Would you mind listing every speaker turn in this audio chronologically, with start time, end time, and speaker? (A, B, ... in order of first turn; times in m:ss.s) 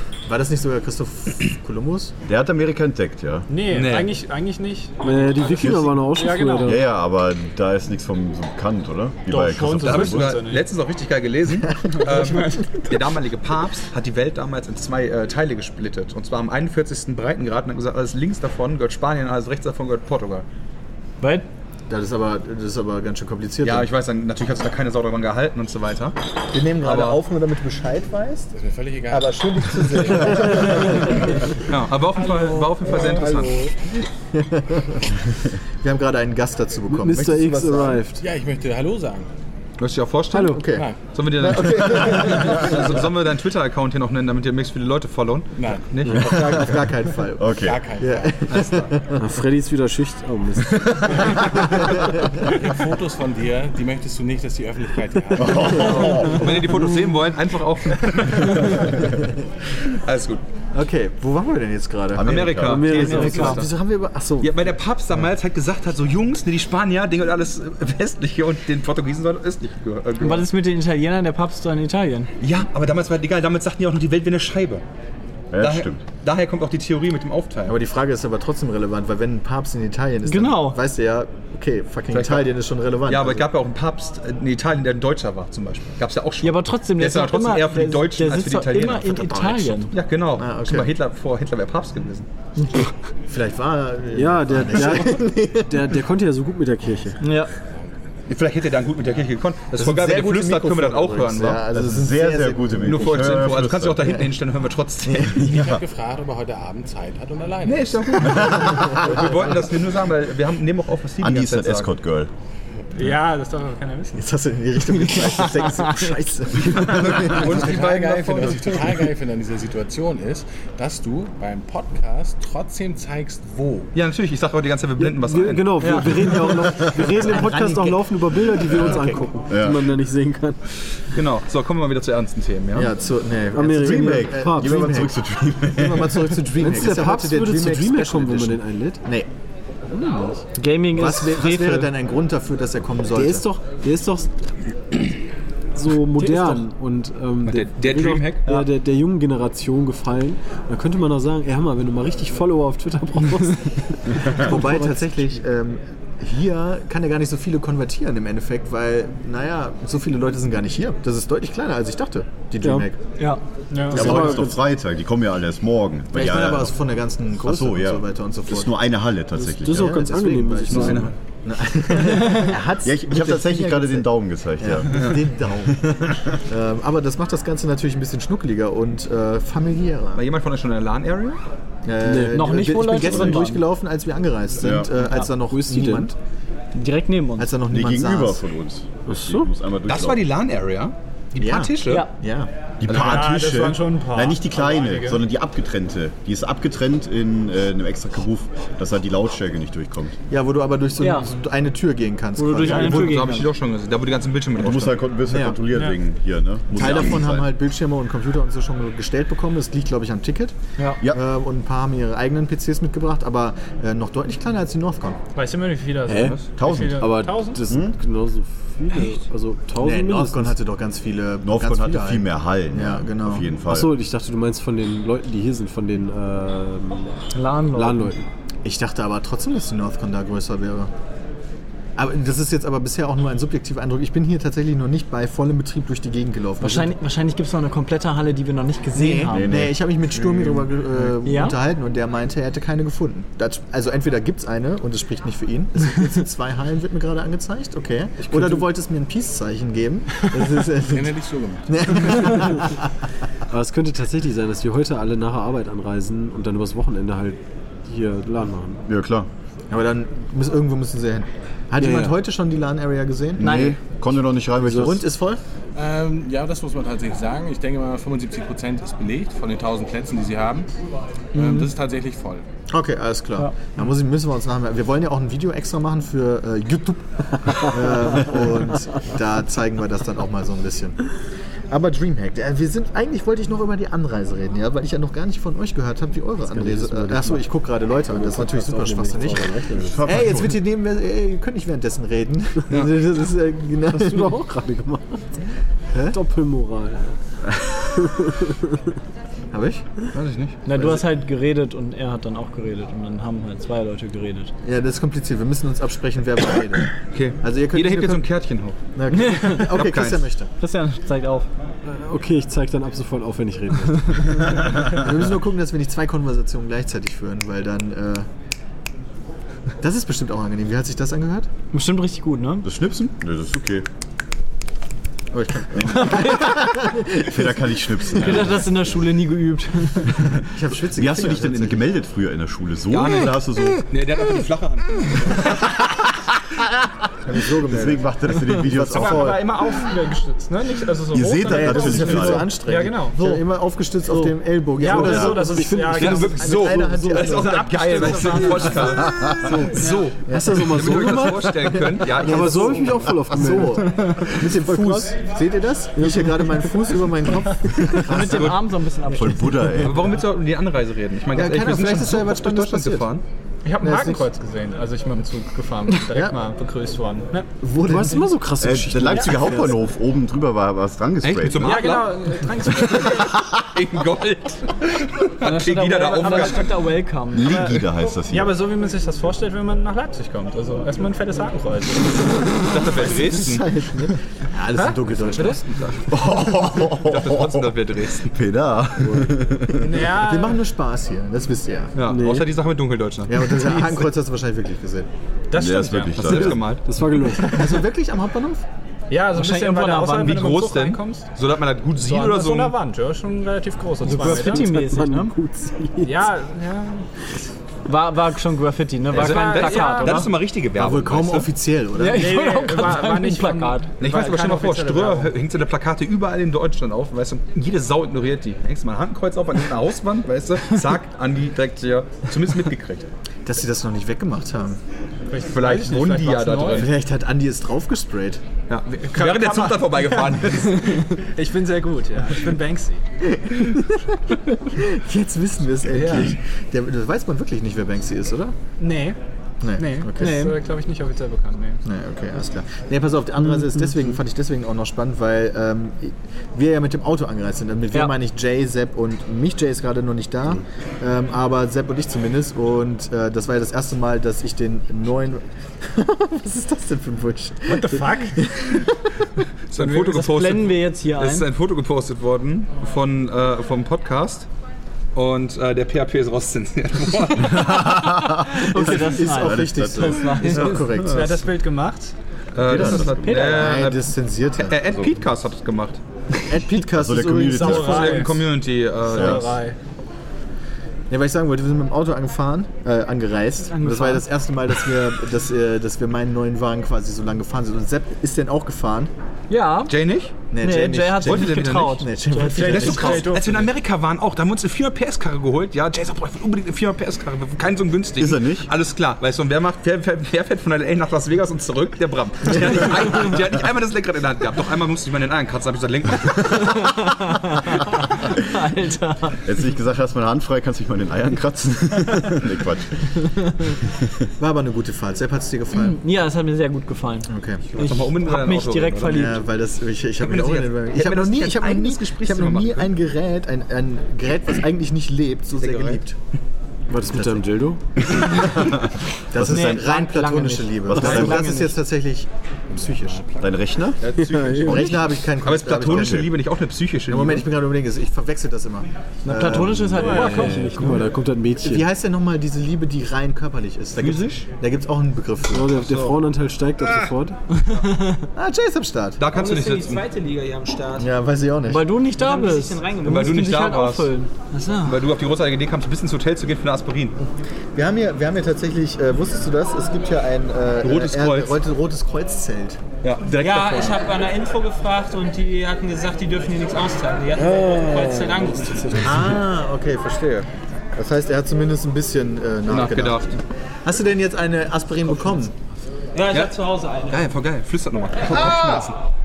0:00.3-0:02.1 A
0:02.3-0:03.5 B
0:03.5-0:06.8 C
0:03.7-0:04.2 D
0:05.0-0:06.8 E
0:05.6-0:06.0 B
0:06.6-0:10.4 B
0:09.3-0:10.7 C
0:09.8-0:20.5 D
0:11.7-0:12.1 A
0:12.0-0:12.8 C
0:21.2-0:21.5 F
0:21.9-0:23.9 A
0:23.6-0:26.2 D
0:26.5-0:28.5 A
0:26.8-0:27.2 D
0:28.5-0:30.4 G
0:29.1-0:31.6 A
0:31.7-0:33.7 D
0:32.8-0:35.2 A
0:35.8-0:38.0 A
0:36.9-0:38.2 E
0:38.2-0:39.3 G
0:39.8-0:46.8 D
0:40.3-0:40.7 E
0:40.4-0:43.0 A
0:45.6-0:46.1 G
0:46.1-0:49.2 A
0:47.4-0:47.8 B
0:47.6-0:48.8 G
0:49.2-0:51.5 E
0:51.3-0:52.2 A
0:52.4-0:56.1 G
0:55.4-0:56.6 B
0:55.8-0:59.2 D
0:59.8-1:00.4 D
1:00.7-1:04.7 A
1:02.1-1:03.0 B
1:02.2-1:03.7 D
1:02.6-1:03.6 E
1:03.0-1:03.6 F
1:04.4-1:10.5 D
1:10.2-1:12.3 F
1:12.4-1:14.8 D
1:15.5-1:16.0 B
1:15.6-1:17.8 D
1:17.7-1:23.4 A
1:20.3-1:20.8 F
1:22.1-1:22.5 D
1:23.1-1:32.3 D
1:26.4-1:29.9 F
1:30.4-1:30.9 A
1:33.3-1:35.9 A
1:34.1-1:37.2 E
1:37.2-1:37.5 F
1:38.3-1:41.6 D
1:39.8-1:43.4 A
1:41.7-1:44.2 B
1:42.9-1:45.5 D
1:44.0-1:44.3 A
1:45.1-1:45.5 A
1:45.4-1:45.8 B
1:45.4-1:48.8 G
1:47.7-1:51.9 D
1:51.2-1:52.3 B
1:53.0-1:54.2 C
1:54.2-1:57.7 A
1:56.6-1:58.9 D
1:57.2-2:03.9 G
2:03.9-2:06.5 D
2:05.0-2:10.6 E
2:06.0-2:09.3 A
2:09.5-2:09.9 B
2:11.1-2:12.9 D
2:12.7-2:19.3 A
2:13.5-2:14.9 E
2:13.6-2:16.4 B
2:16.6-2:19.0 E
2:19.9-2:20.4 E
2:20.6-2:21.9 F
2:20.9-2:23.5 A
2:23.1-2:24.3 E
2:25.8-2:35.3 E
2:26.2-2:26.6 F
2:27.4-2:28.5 D
2:34.2-2:43.0 A
2:42.6-2:42.9 E
2:43.7-2:44.1 C
2:43.9-2:44.6 A
2:43.9-2:46.8 B
2:43.9-2:44.6 E
2:46.1-2:48.8 A
2:47.4-2:50.1 B
2:49.4-2:54.1 A
2:49.6-2:51.1 E
2:50.7-2:51.1 D
2:52.2-2:55.2 B
2:54.6-3:00.2 A
2:54.9-2:55.2 D
3:00.2-3:01.4 D
3:01.8-3:06.2 A
3:02.0-3:03.4 E
3:02.3-3:03.6 F
3:04.6-3:04.9 B
3:05.3-3:06.1 E
3:06.8-3:07.5 F
3:07.4-3:08.4 A
3:07.7-3:10.3 B
3:09.1-3:09.5 E
3:09.9-3:12.1 D
3:11.4-3:12.5 A
3:12.8-3:20.2 B
3:12.9-3:15.2 C
3:20.3-3:23.2 A
3:21.0-3:21.3 F
3:22.4-3:23.5 F
3:22.6-3:25.0 D
3:24.6-3:27.5 B
3:25.3-3:25.6 A
3:25.7-3:26.0 C
3:26.7-3:35.2 A
3:35.4-3:37.6 C
3:36.1-3:36.4 E
3:36.6-3:38.0 B
3:37.0-3:40.6 E
3:39.8-3:43.6 A
3:41.4-3:43.9 B
3:43.7-3:48.3 E
3:47.3-3:48.1 F
3:48.6-3:50.9 A
3:52.0-3:56.9 A
3:56.6-3:59.5 F
3:59.0-4:11.1 A
3:59.3-4:00.2 B
4:01.2-4:01.6 F
4:08.3-4:08.6 E
4:10.8-4:12.3 G
4:11.7-4:12.8 A
4:13.5-4:18.8 E
4:18.9-4:19.3 B
4:19.7-4:23.7 A
4:21.8-4:22.2 E
4:23.4-4:25.0 B
4:23.4-4:23.8 F
4:24.6-4:24.9 E
4:24.7-4:25.4 A
4:25.8-4:30.7 G
4:31.3-4:32.4 G
4:31.4-4:31.7 F
4:32.7-4:41.0 A
4:41.7-4:54.4 A
4:46.5-4:47.4 E
4:48.1-4:50.2 E
4:49.8-4:50.6 B
4:52.7-4:53.0 D
4:53.9-4:55.2 E
4:56.1-4:58.8 E
4:59.5-4:59.9 A
5:00.1-5:00.6 D
5:00.6-5:04.5 F
5:00.7-5:01.0 A
5:04.6-5:08.2 A
5:06.9-5:08.8 D
5:09.0-5:10.5 A
5:09.1-5:09.7 F
5:09.7-5:10.3 D
5:10.6-5:11.5 F
5:11.8-5:14.8 E
5:14.7-5:18.3 A
5:19.8-5:21.5 A
5:21.7-5:22.7 F
5:22.6-5:23.9 B
5:25.3-5:27.5 A
5:25.7-5:26.4 B
5:25.9-5:26.7 F
5:27.2-5:28.9 B
5:28.2-5:28.4 A
5:28.2-5:30.2 F
5:30.5-5:31.9 A
5:30.9-5:33.8 B
5:32.9-5:35.7 D
5:37.2-5:39.5 A
5:37.7-5:39.4 B
5:38.9-5:43.2 C
5:41.1-5:42.6 B
5:41.5-5:48.4 A
5:44.8-5:46.6 C
5:44.9-5:46.4 E
5:45.9-5:52.9 D
5:47.2-5:49.2 C
5:49.4-5:55.2 E
5:49.8-5:50.2 C
5:50.3-5:58.6 A
5:56.0-5:56.8 E
5:58.0-5:59.8 F
5:58.2-5:58.6 D
5:59.1-6:00.1 B
5:59.8-6:03.2 D
6:01.3-6:03.1 A
6:03.6-6:07.5 C
6:03.8-6:04.2 A
6:06.1-6:06.4 A
6:07.6-6:09.4 A
6:07.8-6:09.8 E
6:08.6-6:12.0 B
6:11.2-6:16.7 D
6:11.6-6:13.4 C
6:15.4-6:17.8 F
6:16.2-6:16.7 C
6:17.3-6:18.6 B
6:17.5-6:22.8 C
6:22.5-6:23.7 D
6:22.8-6:25.6 A
6:24.8-6:25.6 C
6:25.2-6:28.3 D
6:26.1-6:30.1 B
6:29.0-6:29.4 E
6:29.8-6:30.6 C
6:30.1-6:32.0 A
6:32.0-6:34.0 D
6:32.0-6:32.6 E
6:33.3-6:35.1 A
6:35.5-6:36.6 C
6:35.5-6:36.6 B
6:35.8-6:36.8 D
6:36.8-6:37.6 E
6:37.4-6:38.6 A
6:39.1-6:41.3 C
6:39.3-6:40.5 F
6:40.2-6:42.8 D
6:42.0-6:44.7 C
6:44.0-6:45.4 F
6:44.2-6:46.3 E
6:46.0-6:47.1 C
6:47.9-6:50.3 F
6:49.1-6:51.5 D
6:49.1-6:50.3 C
6:50.8-6:52.5 A
6:52.0-6:53.9 F
6:52.1-6:55.3 C
6:54.0-7:03.1 D
7:03.5-7:04.8 A
7:05.3-7:06.9 C
7:05.4-7:06.9 D
7:06.8-7:08.4 A
7:08.7-7:11.2 D
7:08.9-7:13.0 C
7:13.2-7:18.6 A
7:15.9-7:16.4 C
7:18.8-7:19.2 C
7:19.6-7:20.5 A
7:19.8-7:21.8 C
7:20.2-7:20.6 F
7:21.8-7:39.0 A
7:37.7-7:38.4 C
7:39.7-7:44.5 D
7:39.8-7:41.5 F
7:45.2-7:47.9 D
7:47.4-7:50.4 B
7:48.5-7:50.9 F
7:48.7-7:51.4 A
7:50.6-7:52.1 C
7:52.5-7:56.0 D
7:52.6-7:53.6 B
7:52.9-7:54.8 A
7:56.5-7:58.3 A
7:56.9-7:58.3 B
7:57.5-7:58.4 C
7:57.8-7:59.6 D
7:59.1-7:59.8 C
7:59.2-7:59.4 B
8:01.1-8:09.1 A
8:03.7-8:04.3 F
8:09.5-8:09.9 F
8:09.9-8:10.4 D
8:10.5-8:13.3 A
8:10.6-8:13.3 F
8:11.2-8:12.0 D
8:12.4-8:13.7 C
8:12.6-8:27.1 D
8:18.2-8:18.7 B
8:26.6-8:29.4 F
8:29.4-8:33.2 B
8:34.4-8:36.0 A
8:35.8-8:39.4 F
8:37.3-8:37.6 A
8:37.7-8:39.4 D
8:39.1-8:46.2 A
8:40.2-8:42.9 D
8:45.6-8:46.0 D
8:46.9-8:47.8 E
8:47.0-8:47.5 A
8:48.2-8:48.8 A
8:49.3-8:53.2 A
8:49.4-8:49.8 B
8:49.4-8:51.8 F
8:50.9-8:51.5 B
8:52.7-8:53.5 G
8:53.4-8:54.0 B
8:54.0-8:57.5 D
8:54.2-8:54.8 E
8:54.6-8:56.3 A
8:55.8-8:56.3 B
8:57.1-9:00.3 A
8:59.2-9:01.0 F
8:59.8-9:01.9 E
9:00.0-9:00.7 C
9:01.6-9:06.2 A
9:04.0-9:04.5 D
9:05.5-9:07.4 E
9:07.6-9:08.2 F
9:08.4-9:09.2 A
9:09.2-9:10.0 D
9:09.3-9:11.1 H
9:11.0-9:11.9 A
9:11.7-9:14.3 F
9:12.1-9:13.5 H
9:13.0-9:14.1 D
9:14.5-9:15.1 H
9:14.8-9:17.2 D
9:17.8-9:22.8 A
9:20.8-9:21.6 D
9:23.0-9:24.0 D
9:23.4-9:29.0 H
9:27.4-9:29.4 E
9:29.0-9:33.2 A
9:32.7-9:33.4 D
9:33.8-9:35.5 A
9:36.1-9:37.3 H
9:37.1-9:39.0 D
9:38.3-9:38.9 A
9:38.3-9:38.9 H